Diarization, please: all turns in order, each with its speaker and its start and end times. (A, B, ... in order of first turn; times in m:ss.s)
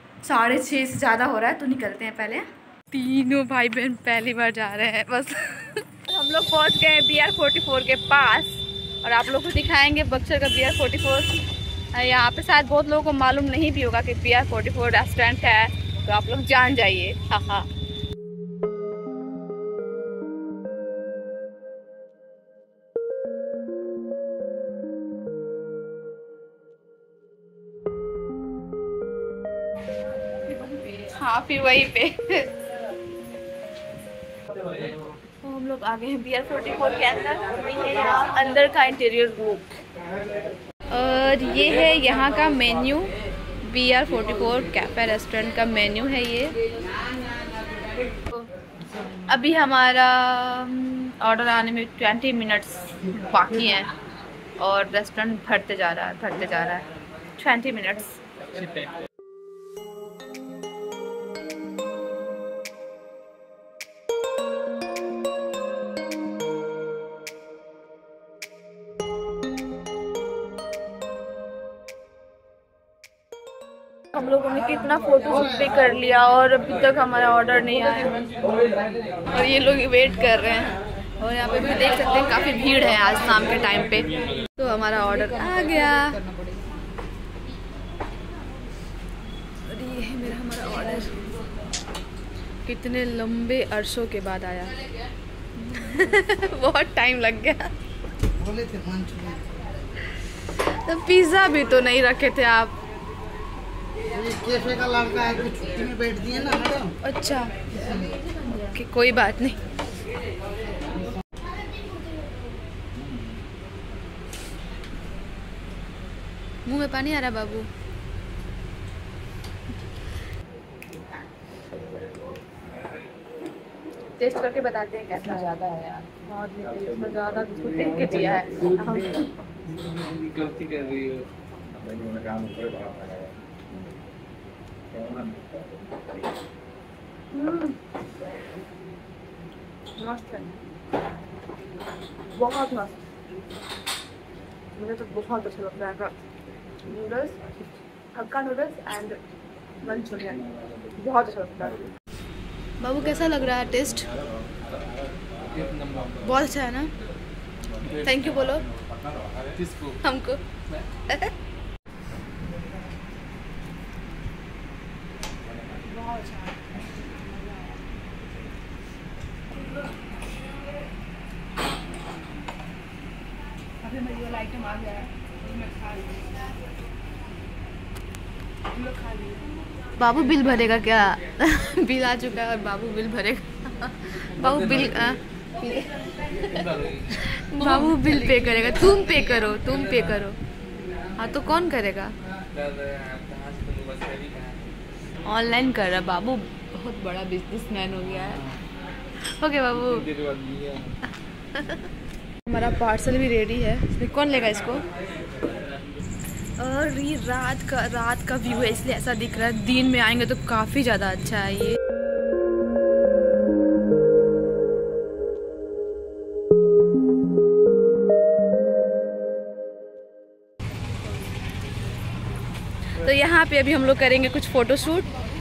0:00.2-0:17.7 A
0:30.6-0:32.6 A
0:35.4-0:39.8 A
0:40.9-0:46.6 A
0:49.1-0:53.9 A
0:54.6-0:56.8 A
0:57.4-0:58.2 A
0:58.6-0:58.9 B
1:14.1-1:18.3 A
1:19.3-1:26.6 A
1:29.7-1:31.2 A
1:32.6-1:34.8 A
1:35.6-1:37.7 A
1:38.4-1:39.4 C
1:40.4-1:42.8 A
1:44.1-1:46.9 C
1:47.0-1:49.6 A
1:56.7-1:57.7 A
2:04.2-2:09.3 A
2:09.7-2:11.3 B
2:11.8-2:13.3 C
2:15.0-2:15.6 C
2:17.3-2:17.8 A
2:20.0-2:20.6 A
2:22.3-2:23.0 A
2:24.8-2:26.1 A
2:26.8-2:29.2 A
2:29.8-2:31.8 A
2:32.8-2:34.1 A
2:35.4-2:36.2 B
2:36.2-2:36.9 A
2:37.9-2:38.7 A
2:39.5-2:40.0 B
2:40.0-2:41.3 A
2:46.1-2:46.4 A
2:53.9-2:55.1 A
3:00.0-3:10.4 A
3:06.5-3:07.2 B
3:11.2-3:12.1 A
3:12.5-3:14.6 B
3:15.2-3:18.5 A
3:19.2-3:20.1 A
3:20.1-3:21.0 B
3:21.5-3:21.9 A
3:22.4-3:24.8 A
3:26.6-3:31.8 A
3:43.0-3:45.1 A